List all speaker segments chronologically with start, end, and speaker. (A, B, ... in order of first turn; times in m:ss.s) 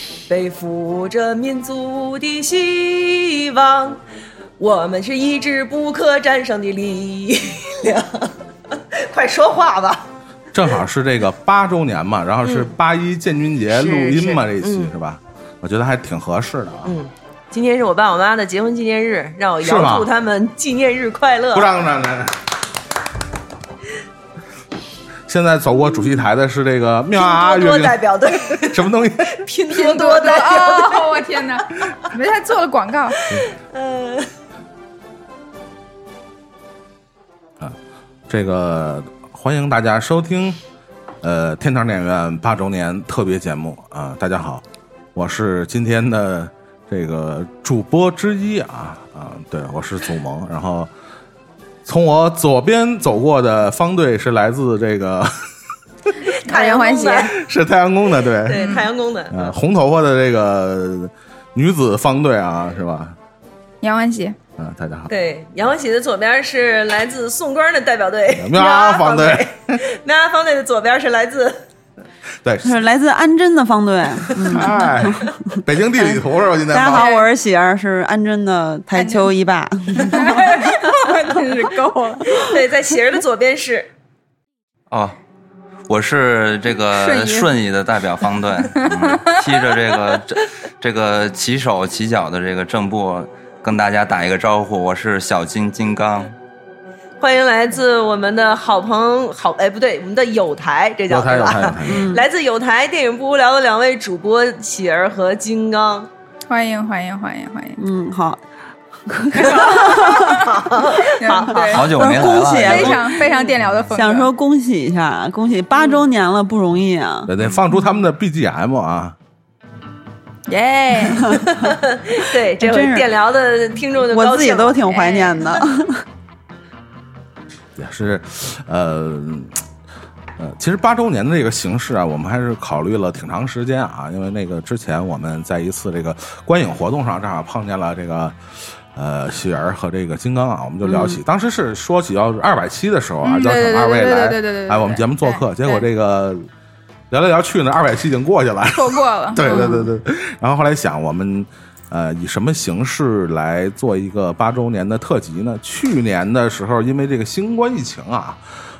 0:00.3-0:04.0 A
0:04.6-0:10.0 A
0:10.5-0:17.0 B
0:12.4-0:12.7 A
0:13.7-0:14.9 A
0:16.8-0:21.7 A
0:19.6-0:20.1 B
0:21.5-0:22.4 B
0:25.3-0:28.0 B
0:27.2-0:31.6 A
0:28.6-0:29.5 B
0:29.7-0:33.2 C
0:33.2-0:34.3 A
0:38.3-0:40.6 B
0:41.2-0:44.6 B
0:45.1-0:50.9 B
0:51.8-0:55.4 B
0:56.4-0:57.3 C
0:56.4-0:57.4 A
0:57.3-0:58.7 B
0:58.3-0:59.5 A
0:58.5-0:58.9 C
0:59.3-1:03.2 B
1:03.8-1:04.4 C
1:04.6-1:05.1 B
1:05.1-1:11.6 A
1:08.3-1:09.8 B
1:12.4-1:12.7 B
1:12.6-1:16.2 D
1:14.4-1:14.6 A
1:14.4-1:17.1 B
1:16.7-1:20.8 D
1:16.9-1:17.3 C
1:19.0-1:19.3 C
1:19.9-1:22.4 C
1:22.3-1:23.9 A
1:24.9-1:25.2 E
1:25.9-1:36.3 E
1:27.0-1:27.5 C
1:28.8-1:29.4 C
1:37.2-1:46.1 A
1:41.1-1:42.1 B
1:41.8-1:42.2 D
1:46.5-1:47.8 C
1:47.8-1:48.4 D
1:49.0-1:50.4 D
1:49.4-1:50.5 C
1:49.6-1:51.8 A
1:51.2-1:54.3 C
1:51.5-1:53.2 D
1:51.7-1:53.0 E
1:53.9-1:57.3 D
1:57.2-1:59.1 B
2:00.5-2:01.4 C
2:01.2-2:01.7 D
2:01.5-2:05.0 A
2:02.6-2:03.1 D
2:04.1-2:06.0 D
2:04.9-2:05.6 C
2:07.8-2:09.6 B
2:10.4-2:18.4 B
2:18.9-2:26.4 B
2:20.8-2:21.2 D
2:23.2-2:25.8 C
2:27.1-2:38.4 B
2:28.7-2:29.8 C
2:29.5-2:29.8 D